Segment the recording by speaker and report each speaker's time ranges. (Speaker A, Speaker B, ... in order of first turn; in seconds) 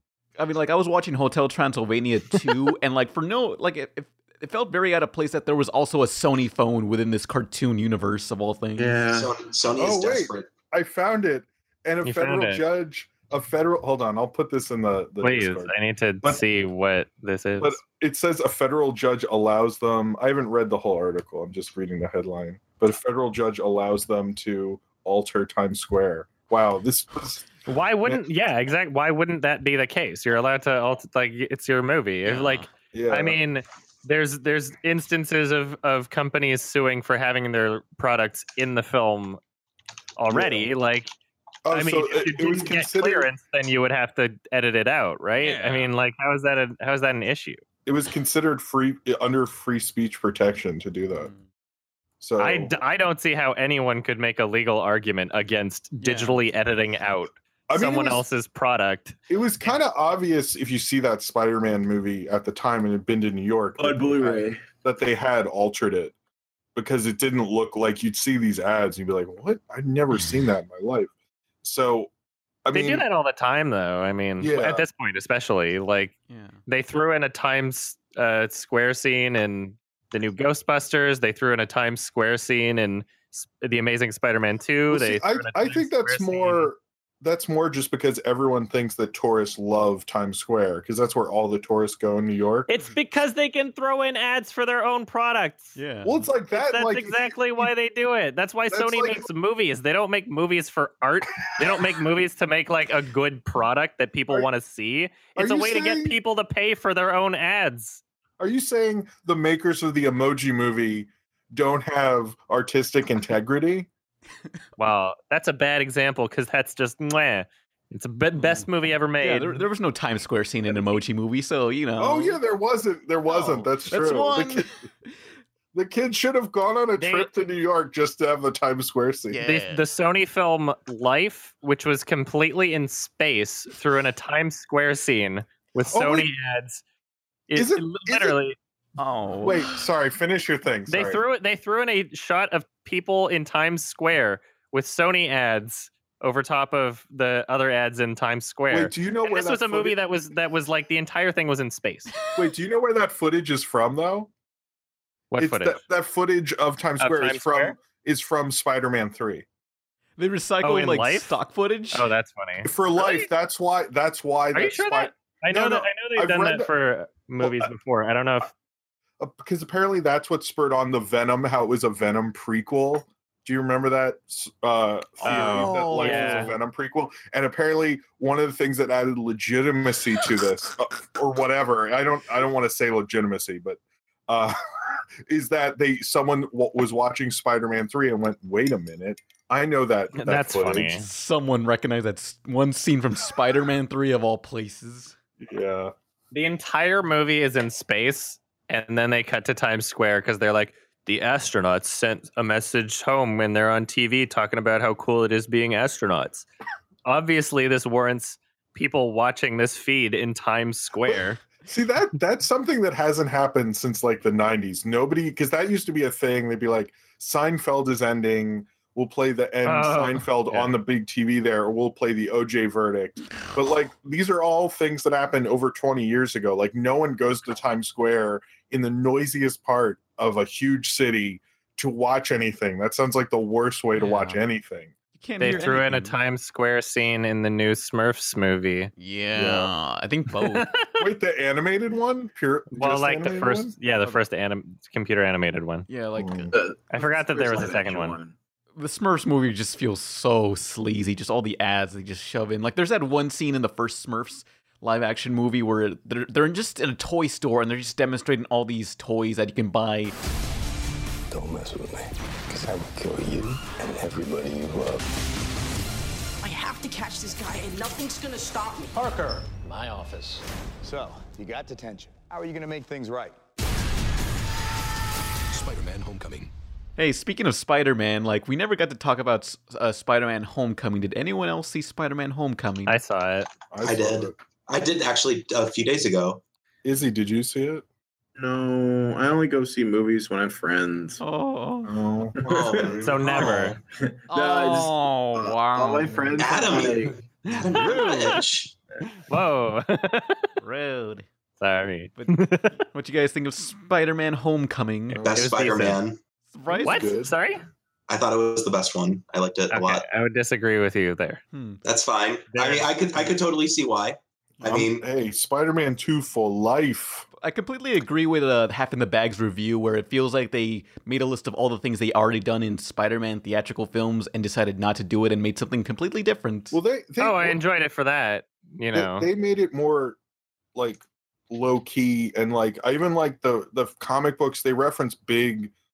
Speaker A: 0.4-9.1, 32.2-32.7, 45.4-45.9, 56.0-56.4, 76.3-76.6, 95.8-96.3, 118.4-118.7, 119.2-122.4, 123.2-125.2, 129.3-129.9, 139.0-139.9, 160.2-162.1, 175.2-176.6, 190.9-195.2, 233.9-234.4, 235.2-236.2, 239.0-240.7, 245.9-246.5, 248.8-260.1, 277.0-283.0, 291.2-291.9, 294.3-296.2, 297.6-298.0, 300.6-301.3, 302.2-305.2, 306.5-307.2, 311.5-311.8, 317.4-326.8
Speaker B: 8.8-9.3, 63.8-64.7, 246.5-248.3, 288.4-291.2, 294.1-294.9, 295.7-297.2
Speaker C: 9.2-10.5, 283.8-286.4, 292.5-293.6, 296.4-298.7, 305.3-306.2, 308.1-310.0, 311.9-315.0
Speaker D: 9.8-15.7, 17.6-28.2, 32.9-33.4, 40.3-40.7, 41.6-43.3, 47.9-51.3, 52.2-52.8, 57.7-58.2, 59.3-66.1, 66.8-71.1, 71.6-72.1, 72.7-73.0, 74.4-74.9, 84.9-92.7, 96.0-97.7, 98.7-99.3, 105.4-106.2, 108.4-113.9, 122.0-124.7, 125.7-129.4, 135.9-136.3, 137.5-138.4, 139.4-141.2, 148.7-150.0, 152.3-154.3, 155.4-159.4, 162.7-166.7, 167.4-167.7, 169.2-184.6, 185.3-191.0, 195.4-195.9, 211.7-234.9, 239.4-239.7, 241.0-243.7, 246.2-246.5, 283.7-284.4, 286.8-287.9, 291.8-293.8, 296.1-296.4, 305.1-305.6, 306.7-307.3, 314.6-317.3, 326.7-327.6, 328.9-330.2, 330.8-335.7
Speaker E: 12.0-12.6, 15.2-17.8, 27.7-39.4, 40.2-41.1, 41.7-47.6, 52.4-59.2, 72.7-76.1, 76.7-86.7, 92.7-95.8, 96.5-108.0, 114.8-119.7, 127.0-127.3, 129.4-136.8, 137.5-138.6, 140.9-152.1, 155.3-155.8, 157.0-157.8, 160.6-161.3, 161.9-163.3, 164.5-168.5, 175.2-176.5, 190.1-191.1, 196.3-206.5, 207.1-211.4, 219.7-220.7, 235.4-238.9, 242.7-245.9, 246.9-248.2, 282.9-283.5, 293.0-293.8, 297.7-298.4, 299.3-300.5, 301.6-302.8, 305.1-306.0, 306.8-307.6, 309.7-311.4, 312.5-312.9, 327.2-329.3
Speaker F: 261.4-262.0, 262.6-265.0
Speaker G: 266.4-269.0